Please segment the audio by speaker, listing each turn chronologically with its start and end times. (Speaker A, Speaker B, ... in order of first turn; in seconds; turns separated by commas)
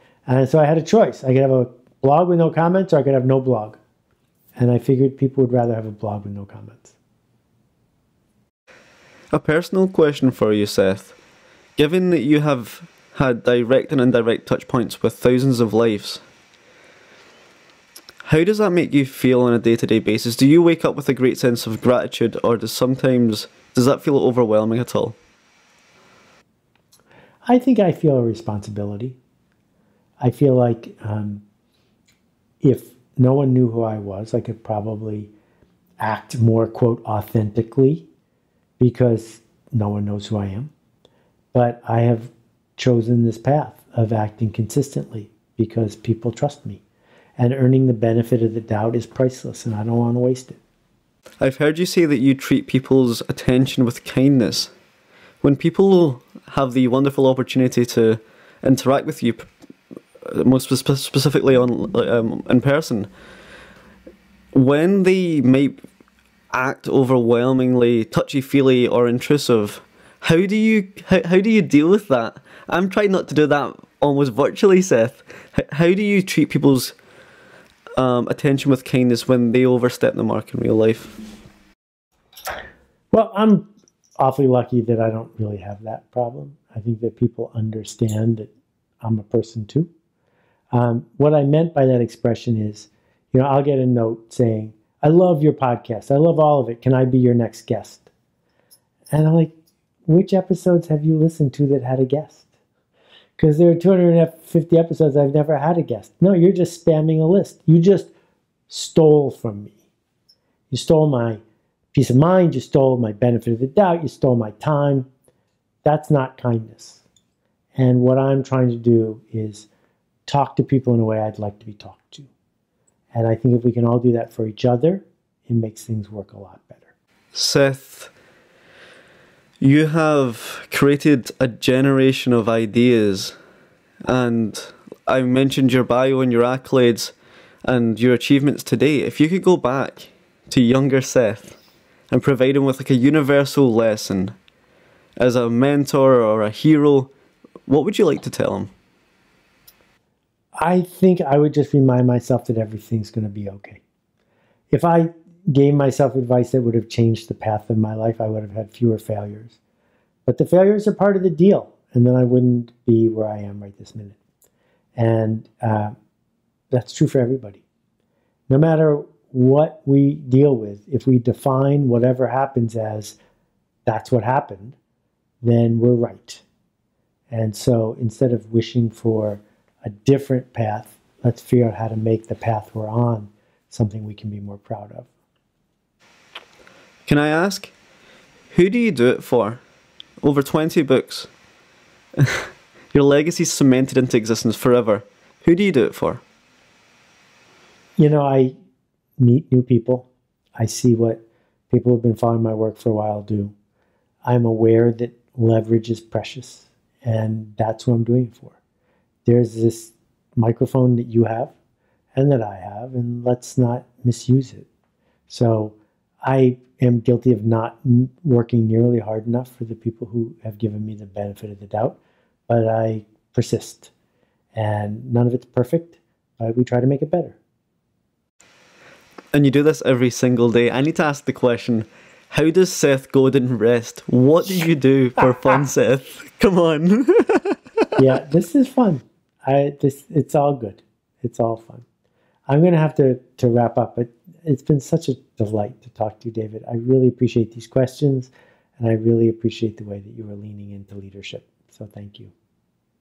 Speaker A: 0.3-3.8, Speaker A: 4.6-6.9, Speaker B: 9.3-11.2, Speaker B: 11.8-16.2, Speaker B: 18.2-25.2, Speaker A: 27.4-29.2, Speaker A: 30.2-31.4, Speaker A: 32.6-35.3, Speaker A: 36.0-38.1, Speaker A: 38.8-40.7, Speaker A: 41.5-46.8, Speaker A: 47.4-50.6, Speaker B: 51.4-54.7, Speaker B: 55.4-59.5, Speaker B: 60.2-63.1, Speaker B: 64.5-65.8, Speaker B: 66.5-77.0, Speaker B: 78.0-81.2, Speaker A: 83.1-83.7, Speaker A: 84.2-88.5, Speaker A: 89.0-89.9, Speaker A: 90.7-98.1, Speaker A: 99.1-99.5, Speaker A: 100.1-102.5, Speaker A: 103.4-108.1, Speaker A: 108.7-109.8, Speaker A: 110.7-111.4, Speaker A: 111.9-115.1, Speaker A: 115.8-117.0, Speaker A: 117.8-119.7, Speaker A: 120.3-122.3, Speaker A: 123.1-126.9, Speaker B: 127.3-128.1, Speaker B: 129.6-133.3, Speaker B: 134.1-137.1, Speaker B: 137.7-141.6, Speaker B: 142.1-144.3, Speaker B: 145.2-147.1, Speaker B: 147.7-148.7, Speaker A: 150.6-153.8, Speaker A: 154.7-159.6, Speaker A: 160.3-164.2, Speaker A: 165.0-165.9, Speaker A: 166.7-167.6, Speaker A: 168.5-173.2, Speaker A: 173.9-174.8, Speaker A: 175.4-176.4, Speaker A: 177.3-185.1, Speaker B: 187.1-187.7, Speaker B: 188.5-189.6, Speaker B: 190.2-191.3, Speaker B: 192.2-196.2, Speaker A: 198.0-198.5, Speaker A: 199.2-203.5, Speaker A: 204.2-208.6, Speaker A: 209.2-211.5, Speaker A: 212.2-214.7, Speaker A: 215.3-223.9, Speaker A: 224.6-227.4, Speaker B: 229.3-237.6, Speaker A: 238.0-241.8, Speaker A: 242.5-252.3